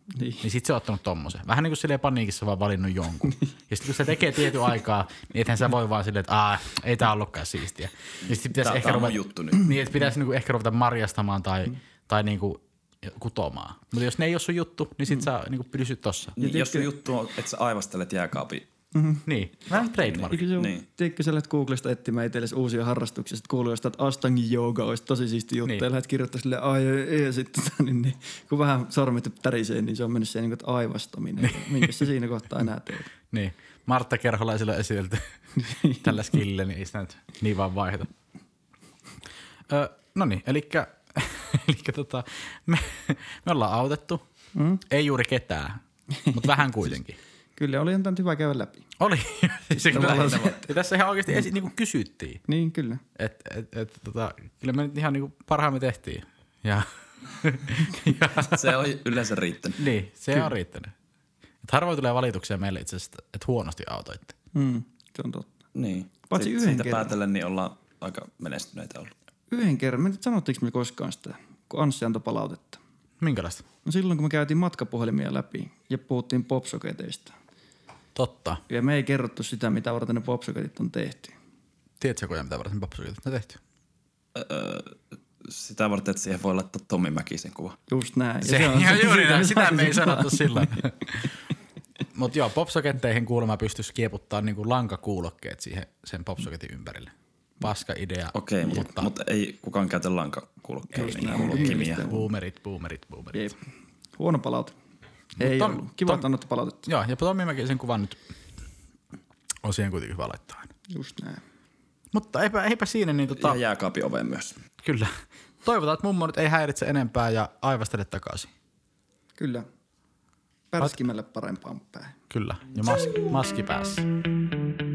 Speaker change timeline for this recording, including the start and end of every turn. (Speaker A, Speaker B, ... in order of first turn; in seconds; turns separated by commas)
Speaker A: 0.1-0.5, Speaker B: 0.4-16.3, Speaker C: 8.5-9.7, Speaker C: 16.4-18.6, Speaker A: 16.4-16.9, Speaker A: 18.9-19.3, Speaker B: 19.2-20.5, Speaker C: 19.7-20.9, Speaker A: 20.2-33.1, Speaker B: 31.4-32.1, Speaker B: 33.3-35.2, Speaker A: 35.6-36.2, Speaker B: 36.0-38.1, Speaker B: 39.7-44.2, Speaker A: 44.5-44.8, Speaker B: 44.9-45.8, Speaker A: 46.2-46.4, Speaker B: 46.3-47.2, Speaker A: 47.5-48.9, Speaker B: 49.0-52.4, Speaker A: 49.7-50.6, Speaker C: 49.9-50.6, Speaker A: 52.5-53.0, Speaker B: 53.2-58.8, Speaker C: 58.4-59.8, Speaker B: 59.8-60.9, Speaker B: 61.6-64.3, Speaker A: 64.5-65.5, Speaker C: 65.7-69.1, Speaker A: 66.3-67.2, Speaker A: 69.5-72.8, Speaker B: 73.2-73.6, Speaker A: 73.8-77.3, Speaker B: 78.2-78.6, Speaker A: 78.7-81.3, Speaker B: 82.0-83.6, Speaker C: 84.3-87.8, Speaker A: 87.9-90.8, Speaker B: 88.4-91.3, Speaker B: 92.1-99.1, Speaker C: 98.3-102.1, Speaker A: 100.9-102.3, Speaker B: 101.2-103.5, Speaker A: 103.3-103.6, Speaker A: 104.2-104.8, Speaker B: 105.4-106.2, Speaker A: 105.4-106.9, Speaker B: 106.8-108.2, Speaker B: 109.6-110.7, Speaker A: 110.9-111.4, Speaker B: 112.1-113.6, Speaker C: 113.3-114.6, Speaker B: 114.8-115.1, Speaker B: 115.6-118.5, Speaker A: 119.3-119.7, Speaker A: 120.7-122.1, Speaker B: 122.3-124.0